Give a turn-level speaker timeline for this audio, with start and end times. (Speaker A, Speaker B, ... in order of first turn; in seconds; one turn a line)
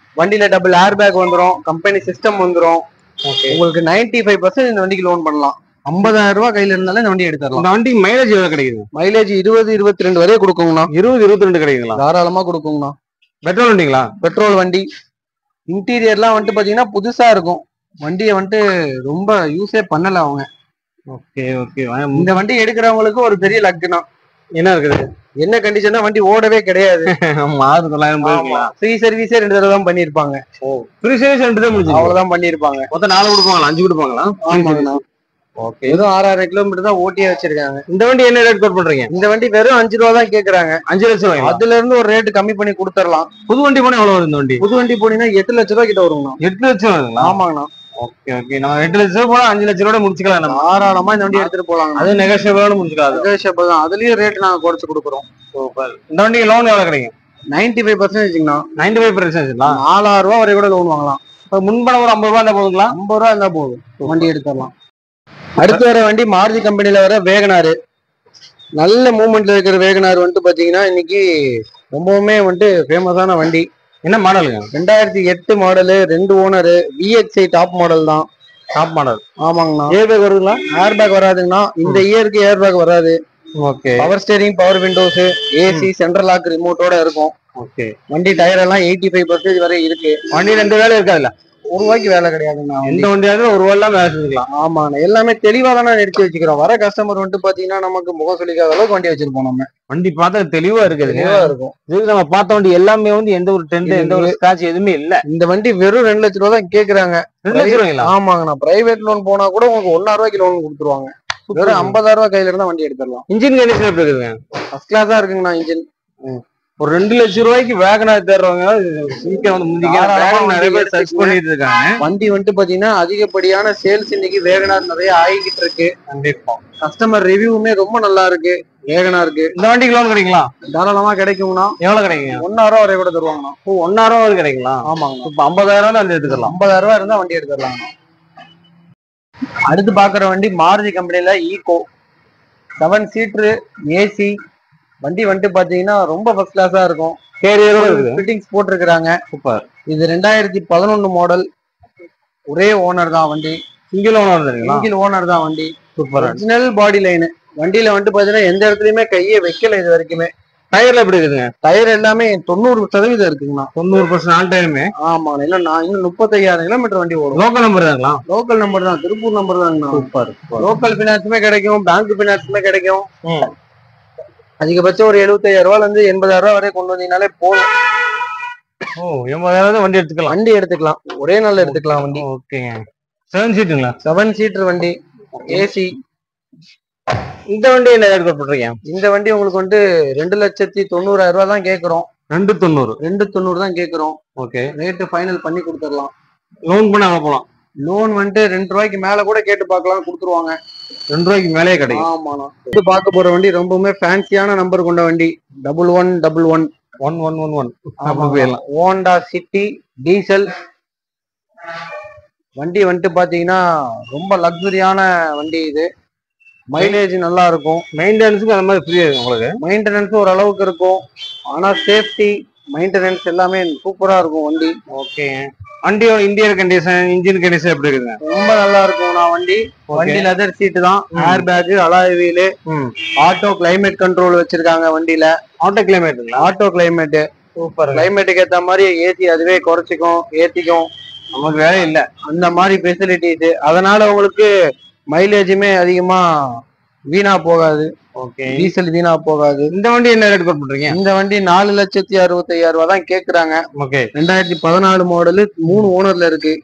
Speaker A: 0.2-2.8
Speaker B: 3.2-3.6
Speaker A: 3.5-7.7
Speaker B: 7.5-8.9
Speaker A: 8.9-10.9
Speaker B: 10.9-12.0
Speaker A: 11.9-12.9
Speaker B: 13.4-14.1
Speaker A: 14.2-14.8
Speaker A: 15.7-20.4
Speaker B: 21.1-22.3
Speaker A: 22.1-24.0
Speaker B: 24.6-25.1
Speaker A: 25.4-27.1
Speaker B: 27.1-28.7
Speaker A: 28.2-30.4
Speaker B: 30.6-32.2
Speaker A: 31.9-32.9
Speaker B: 32.9-35.0
Speaker A: 34.4-35.0
Speaker B: 35.6-36.0
Speaker A: 35.9-37.8
Speaker B: 37.9-39.1
Speaker A: 39.1-40.8
Speaker B: 40.9-41.6
Speaker A: 41.4-43.3
Speaker B: 43.5-44.6
Speaker A: 44.6-46.4
Speaker B: 46.4-47.4
Speaker A: 47.2-47.7
Speaker B: 48.0-50.6
Speaker A: 50.5-52.1
Speaker B: 51.3-53.3
Speaker A: 53.1-55.2
Speaker B: 55.5-57.1
Speaker A: 57.5-58.6
Speaker B: 58.8-59.8
Speaker A: 59.7-61.2
Speaker B: 61.5-63.0
Speaker A: 62.9-64.7
Speaker B: 64.0-64.3
Speaker A: 65.6-67.7
Speaker A: 68.8-71.2
Speaker A: 71.9-73.6
Speaker B: 74.0-74.7
Speaker A: 74.7-78.2
Speaker B: 78.7-79.2
Speaker A: 79.4-79.9
Speaker B: 79.9-80.6
Speaker A: 80.7-83.2
Speaker B: 83.6-84.1
Speaker A: 84.0-87.3
Speaker B: 87.6-87.9
Speaker A: 88.1-90.2
Speaker B: 90.3-91.3
Speaker A: 91.7-93.1
Speaker B: 92.8-94.5
Speaker A: 94.6-99.7
Speaker B: 99.9-105.2
Speaker A: 101.0-101.7
Speaker A: 103.8-104.4
Speaker A: 105.3-113.2
Speaker B: 107.4-108.1
Speaker B: 111.5-112.0
Speaker B: 113.3-114.4
Speaker A: 114.7-115.8
Speaker B: 116.8-122.0
Speaker A: 119.8-121.4
Speaker A: 122.0-125.9
Speaker B: 126.1-126.6
Speaker A: 126.8-129.5
Speaker B: 129.6-130.5
Speaker A: 130.7-131.7
Speaker B: 131.8-132.4
Speaker A: 132.4-133.5
Speaker B: 133.7-136.5
Speaker A: 134.9-135.3
Speaker A: 136.3-137.9
Speaker A: 139.7-141.8
Speaker A: 142.8-144.3
Speaker A: 145.0-147.2
Speaker B: 147.4-148.2
Speaker A: 147.7-149.1
Speaker B: 149.3-149.6
Speaker A: 149.9-151.4
Speaker A: 152.5-153.6
Speaker B: 153.9-154.9
Speaker A: 154.6-160.3
Speaker B: 155.9-156.4
Speaker B: 160.7-161.5
Speaker A: 161.6-163.7
Speaker B: 163.8-164.9
Speaker A: 165.0-167.4
Speaker B: 167.3-168.2
Speaker A: 168.3-170.1
Speaker B: 169.9-170.7
Speaker A: 170.6-173.1
Speaker B: 173.2-173.5
Speaker A: 174.6-177.7
Speaker B: 178.9-180.3
Speaker A: 180.3-182.2
Speaker B: 181.6-182.8
Speaker B: 183.3-184.0
Speaker A: 184.0-184.9
Speaker B: 185.3-185.7
Speaker A: 185.5-185.9
Speaker B: 187.5-188.8
Speaker A: 188.9-192.1
Speaker B: 192.3-193.0
Speaker A: 193.0-194.2
Speaker B: 194.4-194.7
Speaker A: 194.8-196.1
Speaker B: 196.7-197.4
Speaker A: 197.8-200.6
Speaker B: 201.1-202.1
Speaker A: 201.9-206.7
Speaker B: 207.0-208.6
Speaker A: 208.0-210.5
Speaker A: 212.6-213.6
Speaker A: 214.1-215.9
Speaker A: 216.7-217.8
Speaker B: 217.9-219.5
Speaker A: 219.6-221.0
Speaker A: 221.5-224.7
Speaker B: 224.9-228.2
Speaker A: 228.2-232.5
Speaker B: 229.9-230.3
Speaker B: 231.1-231.4
Speaker B: 232.7-232.9
Speaker A: 233.2-235.3
Speaker B: 235.6-236.5
Speaker A: 236.4-237.2
Speaker B: 237.6-238.1
Speaker A: 237.9-240.9
Speaker B: 241.3-242.1
Speaker A: 242.3-244.5
Speaker A: 245.1-246.2
Speaker A: 247.1-247.9
Speaker B: 248.2-248.7
Speaker A: 248.5-249.7
Speaker B: 249.7-251.0
Speaker A: 250.9-253.6
Speaker B: 253.7-254.1
Speaker A: 254.1-256.5